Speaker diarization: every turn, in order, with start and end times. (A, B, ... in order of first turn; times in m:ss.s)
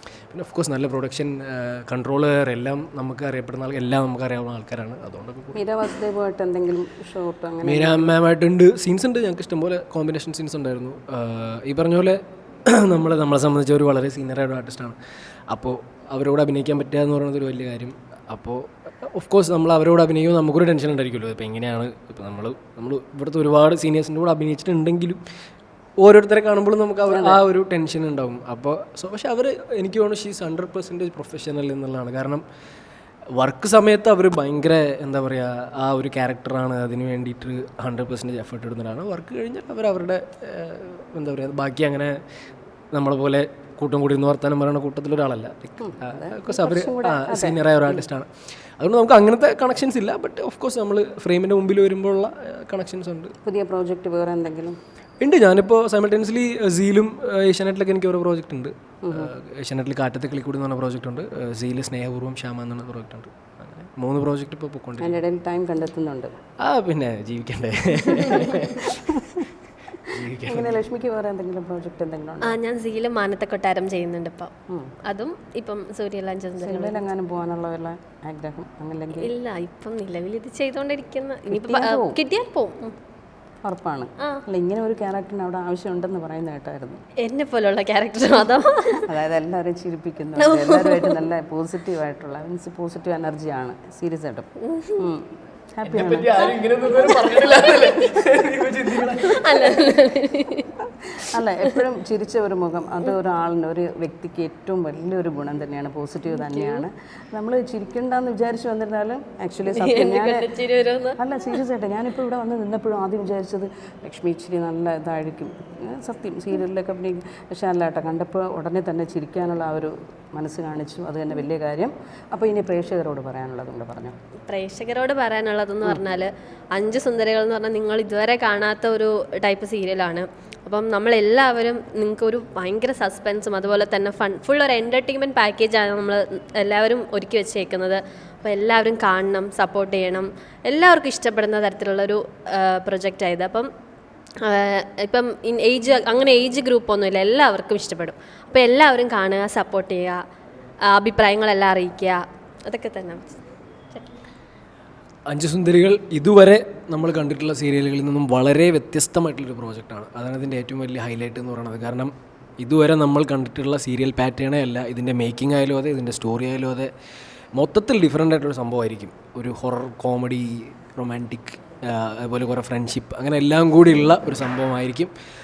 0:00.3-0:05.6 A
0:05.5-0:08.2 B
0:07.6-0:15.0 A
0:15.5-0:25.2 A
0:26.0-0:32.4 A
0:27.1-0:27.4 B
0:33.4-0:42.2 A
0:42.9-0:53.3 A
0:45.8-0:48.1 B
0:53.4-0:54.8 B
0:55.2-1:05.2 A
0:59.0-0:59.3 B
1:05.0-1:06.3 B
1:06.6-1:09.4 A
1:10.0-1:10.8 A
1:10.4-1:12.6 B
1:12.4-1:14.5 C
1:14.7-1:14.9 B
1:15.0-1:17.0 C
1:16.6-1:19.3 B
1:19.2-1:22.9 C
1:21.5-1:22.2 B
1:23.6-1:27.0 B
1:27.2-1:29.1 C
1:29.0-1:36.5 B
1:30.4-1:31.2 C
1:34.6-1:35.1 C
1:35.8-1:39.7 A
1:37.1-1:37.9 C
1:39.0-1:41.8 C
1:41.1-1:50.5 B
1:46.3-1:46.8 C
1:49.7-1:51.2 C
1:51.2-2:04.1 B
2:04.5-2:23.7 C
2:24.4-2:30.2 C
2:30.9-2:34.2 C
2:35.3-2:46.9 A
2:47.6-2:55.1 A